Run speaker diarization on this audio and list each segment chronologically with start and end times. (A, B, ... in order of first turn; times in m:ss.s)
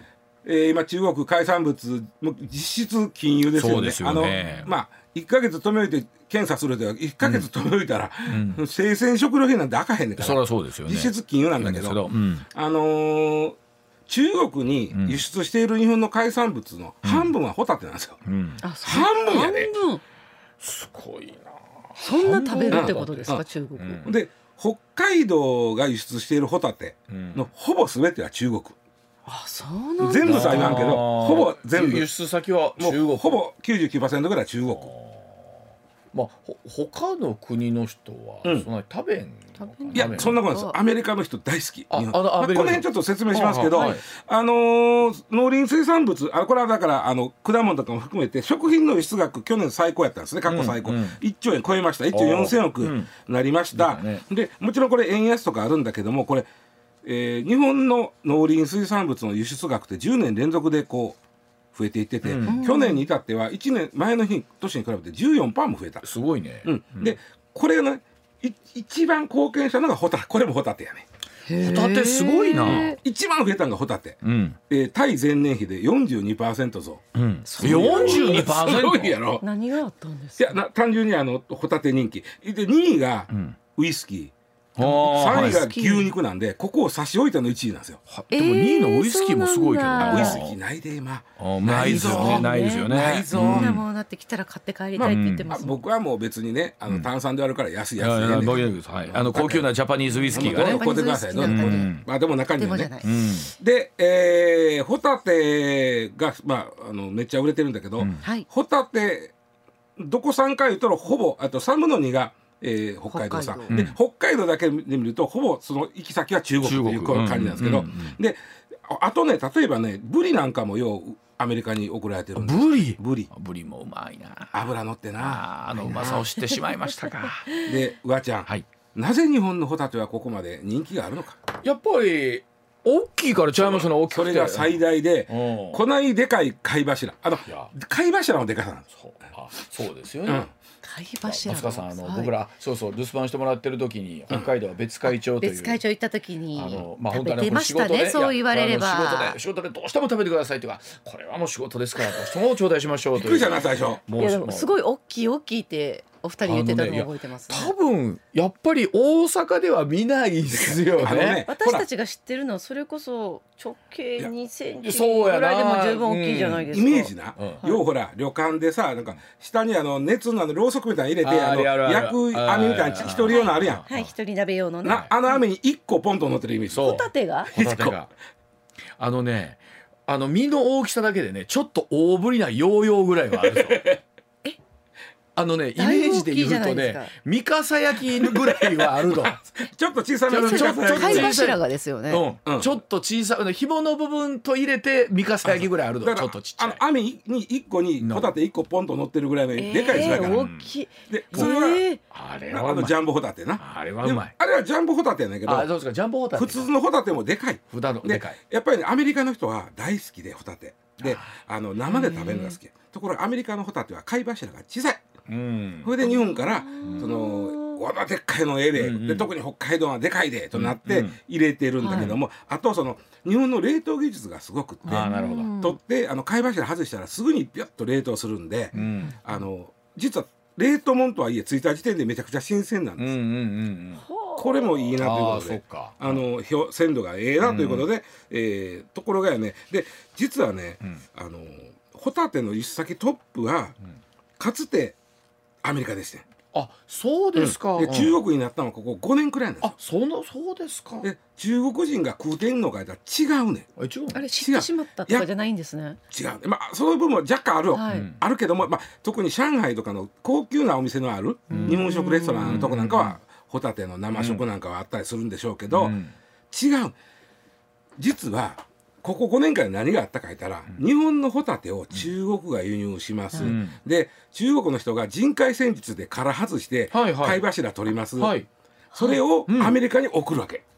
0:00.4-0:13.6 A
0:03.6-0:04.7 B
0:08.3-0:08.6 B
0:10.2-0:12.5 B
0:14.1-0:18.2 A
0:14.9-0:15.2 B
0:17.0-0:17.3 B
0:18.2-0:18.6 B
0:18.6-0:20.0 C
0:18.8-0:19.7 A
0:20.6-0:24.1 B
0:22.0-0:24.0 C
0:22.7-0:23.4 A
0:24.0-0:28.8 A
0:27.1-0:27.5 B
0:29.3-0:30.8 C
0:30.0-0:32.1 A
0:30.2-0:33.4 B
0:32.8-0:34.9 A
0:34.7-0:35.6 B
0:36.1-0:40.4 B
0:39.6-0:40.8 C
0:39.9-0:56.5 A
0:41.9-0:44.0 B
0:50.5-0:51.2 B
0:52.1-0:53.1 B
0:53.7-0:54.2 B
0:57.0-1:01.2 A
1:01.7-1:06.1 A
1:02.2-1:02.6 B
1:02.5-1:03.1 C
1:06.0-1:07.2 B
1:06.6-1:11.1 A
1:11.5-1:13.0 C
1:11.6-1:12.9 B
1:12.6-1:17.0 A
1:14.2-1:14.6 B
1:17.2-1:19.2 B
1:17.5-1:18.4 C
1:17.6-1:19.4 A
1:19.4-1:20.6 C
1:20.4-1:28.0 A
1:23.3-1:23.6 B
1:24.8-1:25.6 B
1:25.2-1:26.1 C
1:28.1-1:30.6 B
1:28.3-1:30.4 C
1:30.0-1:33.8 A
1:31.4-1:33.8 B
1:31.7-1:35.8 C
1:35.0-1:39.7 A
1:35.0-1:35.5 B
1:38.0-1:40.8 B
1:40.2-1:42.0 C
1:40.3-1:42.9 A
1:41.4-1:42.0 B
1:42.6-1:43.1 C
1:43.0-1:43.5 B
1:43.6-1:49.3 A
1:48.0-1:48.2 B
1:50.0-2:03.3 A
1:53.1-1:53.8 C
1:53.7-1:54.0 B
1:56.6-1:58.2 B
2:02.4-2:04.6 B
2:04.5-2:06.3 A
2:05.2-2:07.6 B
2:07.6-2:11.4 A
2:11.6-2:15.8 B
2:13.6-2:18.9 A
2:17.5-2:17.7 B
2:18.9-2:20.5 B
2:20.8-2:22.3 C
2:21.2-2:25.8 B
2:25.1-2:29.4 C
2:26.6-2:34.8 B
2:33.2-2:34.0 A
2:34.2-2:37.7 C
2:36.4-2:41.5 B
2:40.5-2:41.9 A
2:41.4-2:47.8 C
2:44.7-2:46.7 B
2:46.7-2:53.8 A
2:47.4-2:47.6 B
2:51.2-2:54.1 B
2:53.1-2:55.4 C
2:54.8-2:58.0 A
2:56.7-2:58.1 B
2:56.8-2:57.5 C
2:59.0-3:04.0 B
3:03.4-3:04.0 A
3:05.4-3:09.4 B
3:05.8-3:07.1 C
3:08.2-3:11.4 A
3:10.3-3:16.8 B
3:10.3-3:12.2 C
3:12.4-3:12.8 A
3:15.5-3:20.5 A
3:18.0-3:18.3 B
3:19.6-3:22.0 C
3:19.9-3:20.7 B
3:21.1-3:21.9 A
3:22.1-3:23.0 B
3:22.5-3:25.7 A
3:23.6-3:24.4 B
3:25.5-3:26.7 B
3:26.3-3:35.0 A
3:27.7-3:28.4 B
3:31.0-3:31.3 B
3:31.9-3:32.6 C
3:35.3-3:35.9 B
3:35.8-3:53.2 A
3:36.0-3:37.8 C
3:38.8-3:39.3 B
3:40.5-3:41.2 B
3:41.8-3:42.1 C
3:41.9-3:42.2 B
3:44.9-3:45.5 B
3:44.9-3:45.8 C
3:48.7-3:49.2 B
3:53.0-3:54.0 B
3:54.0-3:54.8 C
3:54.4-4:03.8 A
3:55.0-3:56.2 B
3:57.4-3:57.9 B
4:04.4-4:05.0 A
4:05.6-4:06.2 A
4:06.5-4:08.2 B
4:07.4-4:09.8 A
4:09.6-4:11.1 B
4:11.0-4:13.7 A
4:13.8-4:14.2 B
4:14.1-4:16.0 C
4:14.4-4:15.3 A
4:16.1-4:26.0 A
4:17.7-4:18.1 C
4:17.9-4:18.2 B
4:21.5-4:22.7 C
4:21.5-4:21.9 B
4:22.4-4:23.2 B
4:24.1-4:24.4 B
4:25.7-4:26.2 B
4:26.5-4:27.0 A
4:28.0-4:38.4 A
4:33.4-4:33.8 B
4:36.9-4:37.4 B
4:38.2-4:38.5 B
4:38.9-4:39.2 C
4:39.0-4:40.6 A
4:39.5-4:39.8 B